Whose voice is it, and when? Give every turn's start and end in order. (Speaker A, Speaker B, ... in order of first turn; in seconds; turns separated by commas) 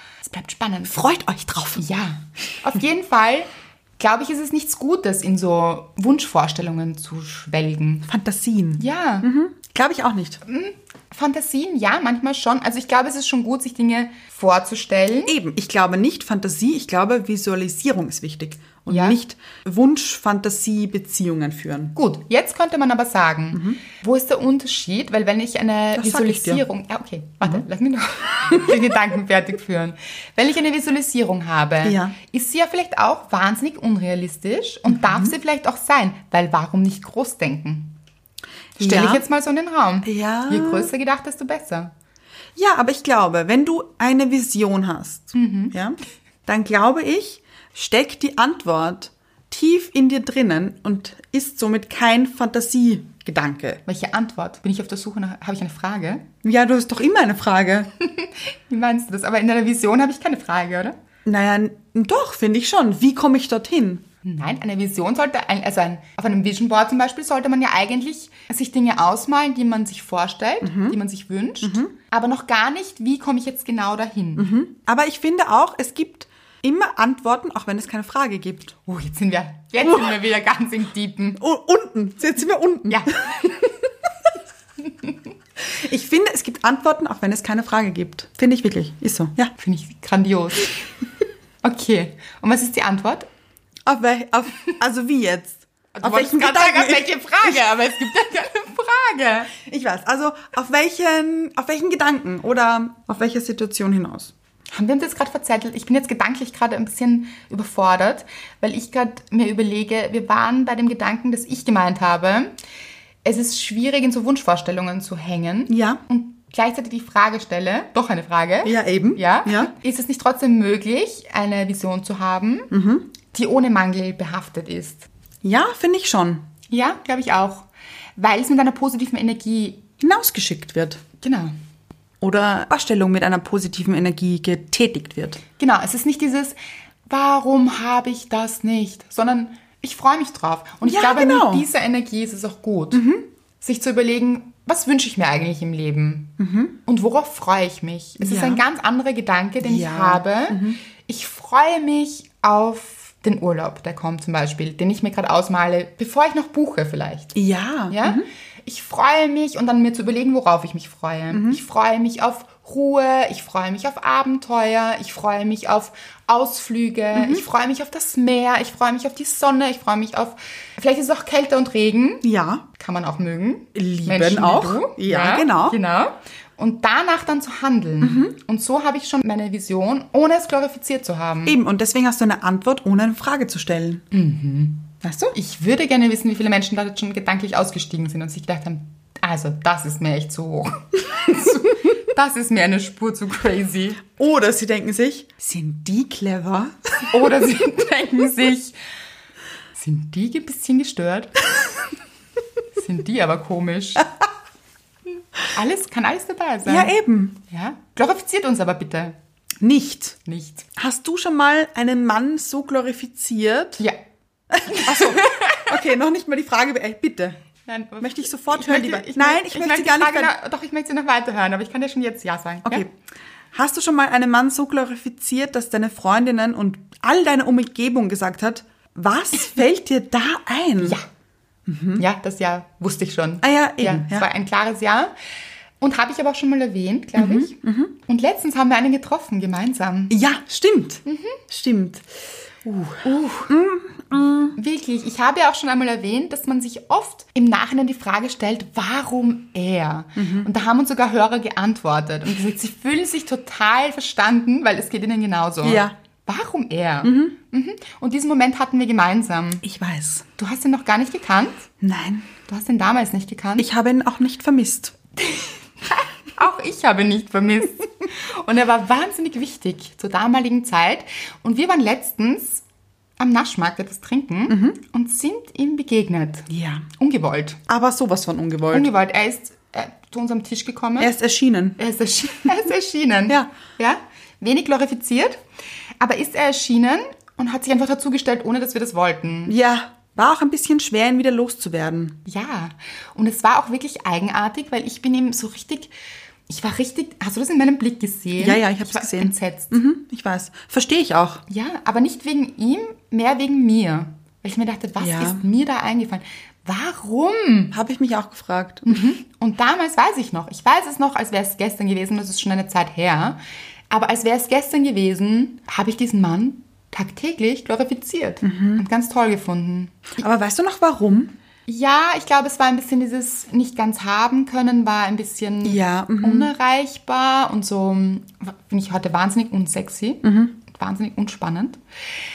Speaker A: 0.2-1.0, Speaker B: 0.9-1.8, Speaker A: 1.8-8.1, Speaker B: 8.1-10.4, Speaker A: 8.8-9.3, Speaker A: 10.4-15.3, Speaker B: 15.3-21.9, Speaker A: 18.9-19.2, Speaker A: 21.9-38.0, Speaker B: 23.5-23.8, Speaker B: 26.0-26.6, Speaker B: 31.8-32.1, Speaker B: 34.9-35.3, Speaker A: 38.8-41.9, Speaker B: 38.8-39.2, Speaker B: 40.0-40.9, Speaker B: 42.6-53.8, Speaker A: 45.3-45.8, Speaker A: 53.9-56.3, Speaker B: 56.4-57.9, Speaker A: 58.0-61.0, Speaker B: 61.2-64.0, Speaker A: 64.2-74.5, Speaker B: 70.6-71.0, Speaker B: 71.6-71.9, Speaker B: 74.4-78.8, Speaker A: 78.9-81.4, Speaker B: 79.8-80.2, Speaker B: 81.4-83.5, Speaker A: 82.9-83.7, Speaker B: 85.6-89.5, Speaker A: 89.6-90.8, Speaker A: 91.6-93.3, Speaker B: 93.9-97.6, Speaker A: 96.0-99.5, Speaker B: 99.5-104.3, Speaker A: 104.7-112.5, Speaker A: 113.2-122.7, Speaker B: 115.7-116.0, Speaker B: 118.7-119.7, Speaker B: 122.7-123.1, Speaker A: 123.3-125.1, Speaker B: 125.4-126.5, Speaker A: 126.7-129.8, Speaker B: 130.0-131.0, Speaker A: 131.2-131.5, Speaker B: 132.2-135.4, Speaker A: 135.6-143.1, Speaker B: 140.8-141.7, Speaker B: 142.9-143.2, Speaker A: 143.6-157.3, Speaker B: 146.4-146.8, Speaker B: 148.2-148.6, Speaker B: 149.6-150.8, Speaker B: 157.3-158.2, Speaker A: 157.9-181.6, Speaker B: 161.3-161.6, Speaker B: 167.1-167.4, Speaker B: 172.2-172.7, Speaker B: 173.8-175.8, Speaker B: 178.0-178.3, Speaker B: 181.5-184.0, Speaker A: 184.1-194.1, Speaker B: 185.0-185.3, Speaker B: 194.1-197.1, Speaker A: 197.1-198.8, Speaker A: 199.8-201.4, Speaker A: 202.8-204.1, Speaker A: 205.5-207.0, Speaker B: 206.7-207.4, Speaker A: 207.5-209.2, Speaker B: 209.6-210.2, Speaker A: 210.2-210.7, Speaker B: 210.8-213.8, Speaker B: 214.5-217.4, Speaker A: 214.6-215.7, Speaker A: 217.7-222.9, Speaker B: 218.0-220.3, Speaker B: 222.7-222.9, Speaker B: 223.5-231.0, Speaker B: 231.7-232.0, Speaker A: 232.0-235.1, Speaker B: 233.4-234.3, Speaker A: 235.8-240.2, Speaker B: 237.2-237.9, Speaker B: 240.1-242.1, Speaker A: 241.1-241.4, Speaker B: 242.6-244.6, Speaker A: 243.0-243.5, Speaker A: 244.5-259.6, Speaker B: 250.2-250.5, Speaker B: 255.6-255.9, Speaker B: 257.0-257.4, Speaker B: 259.6-260.3, Speaker A: 260.4-261.7, Speaker B: 261.8-262.3, Speaker A: 262.5-263.7, Speaker B: 263.6-264.9, Speaker A: 265.2-272.6, Speaker A: 273.2-277.6, Speaker B: 274.5-274.8, Speaker B: 276.5-276.9, Speaker B: 277.7-278.9, Speaker A: 278.7-281.1, Speaker B: 281.0-281.8, Speaker A: 281.8-285.4, Speaker A: 286.0-289.6, Speaker B: 289.5-292.2, Speaker A: 292.3-295.9, Speaker A: 296.5-299.8, Speaker B: 298.4-301.4, Speaker A: 301.5-307.7, Speaker B: 305.0-305.4, Speaker B: 307.7-309.0, Speaker A: 308.9-313.4, Speaker A: 313.9-320.2, Speaker B: 318.4-318.8, Speaker B: 320.2-321.3, Speaker A: 321.7-331.8, Speaker B: 325.6-326.5, Speaker B: 330.2-330.5